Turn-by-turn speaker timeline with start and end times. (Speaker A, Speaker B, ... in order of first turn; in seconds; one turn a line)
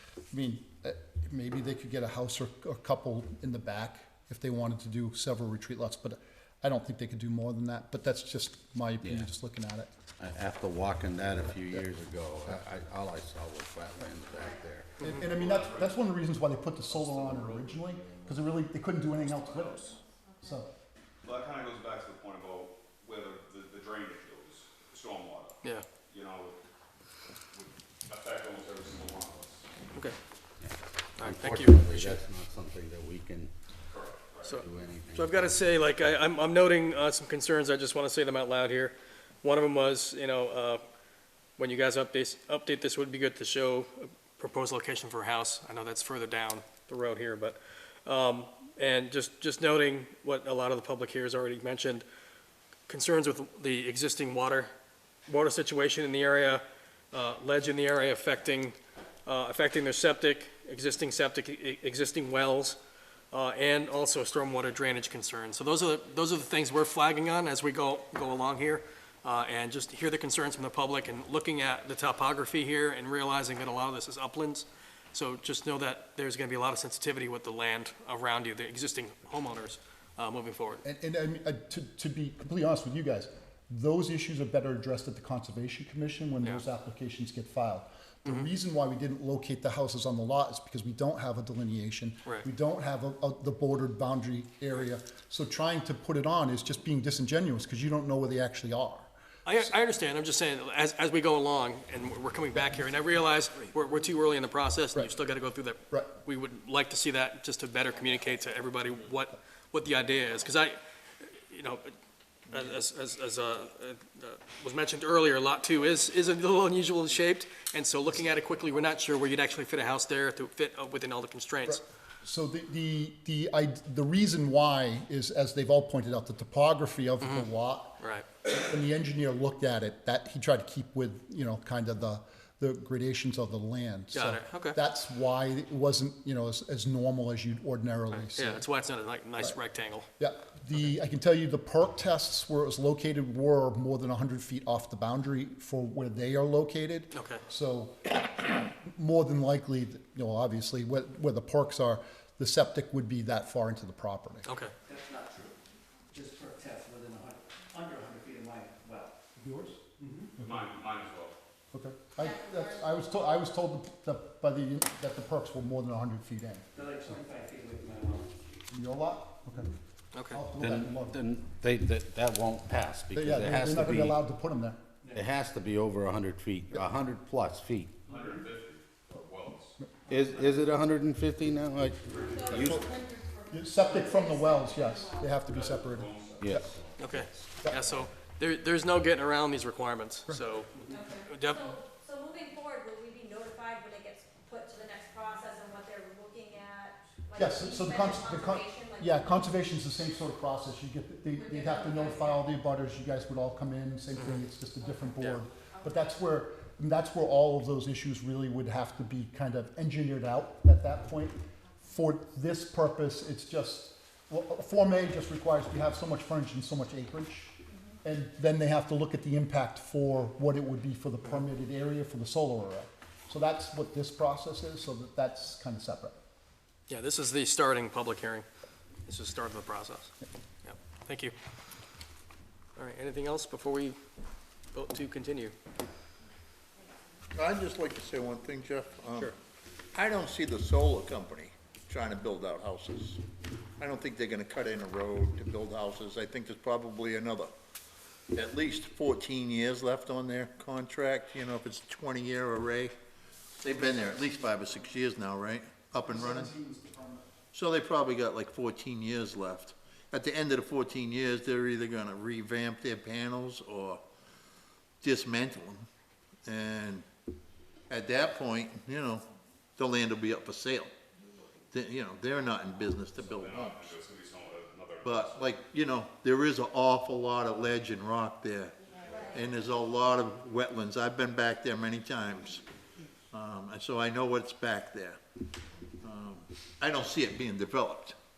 Speaker A: 0.3-9.9
Speaker B: 9.0-9.3
Speaker B: 10.2-14.9
Speaker C: 14.3-14.6
Speaker A: 15.0-20.7
Speaker D: 15.2-16.0
Speaker D: 17.0-18.3
Speaker C: 20.0-20.6
Speaker D: 21.2-26.6
Speaker D: 27.5-29.7
Speaker B: 30.6-33.5
Speaker E: 31.2-32.2
Speaker D: 33.9-34.6
Speaker E: 34.4-40.8
Speaker B: 34.6-35.6
Speaker E: 41.6-52.0
Speaker E: 52.9-54.7
Speaker E: 55.3-62.8
Speaker E: 63.3-80.8
Speaker A: 80.8-99.1
Speaker E: 99.4-111.9
Speaker E: 112.5-121.8
Speaker A: 121.7-127.9
Speaker E: 127.2-127.5
Speaker E: 128.0-128.3
Speaker A: 128.5-138.7
Speaker E: 134.1-134.8
Speaker E: 138.1-140.1
Speaker A: 140.2-154.5
Speaker E: 147.1-147.4
Speaker E: 154.4-154.7
Speaker F: 154.9-155.6
Speaker F: 156.1-159.1
Speaker A: 159.3-159.8
Speaker D: 160.4-161.4
Speaker A: 161.7-166.6
Speaker C: 162.2-162.9
Speaker F: 166.7-168.3
Speaker A: 168.7-169.7
Speaker E: 170.1-170.4
Speaker A: 170.3-171.2
Speaker B: 170.6-174.2
Speaker A: 173.1-174.8
Speaker B: 175.1-178.0
Speaker D: 178.1-179.7
Speaker B: 180.1-182.8
Speaker D: 182.1-183.0
Speaker C: 182.2-185.4
Speaker A: 182.5-182.9
Speaker A: 183.5-186.7
Speaker D: 185.4-187.2
Speaker B: 186.4-187.2
Speaker E: 187.0-190.7
Speaker C: 190.9-199.5
Speaker E: 191.2-191.7
Speaker A: 197.3-226.2
Speaker C: 201.3-202.4
Speaker E: 204.2-204.4
Speaker C: 204.8-206.2
Speaker C: 217.7-217.9
Speaker E: 226.9-228.4
Speaker E: 229.1-230.1
Speaker E: 230.6-231.3
Speaker E: 232.8-234.0
Speaker E: 234.7-235.5
Speaker G: 237.3-239.3
Speaker G: 239.9-243.2
Speaker G: 243.8-247.5
Speaker G: 248.3-252.9
Speaker G: 253.6-256.5
Speaker A: 253.8-254.7
Speaker A: 256.0-257.2
Speaker G: 257.5-264.0
Speaker G: 265.0-265.8
Speaker G: 266.4-267.0
Speaker G: 267.9-269.2
Speaker G: 269.8-270.9
Speaker G: 271.7-274.0
Speaker D: 273.2-275.5
Speaker G: 275.0-282.6
Speaker C: 278.9-279.4
Speaker G: 283.3-285.2
Speaker G: 286.0-288.1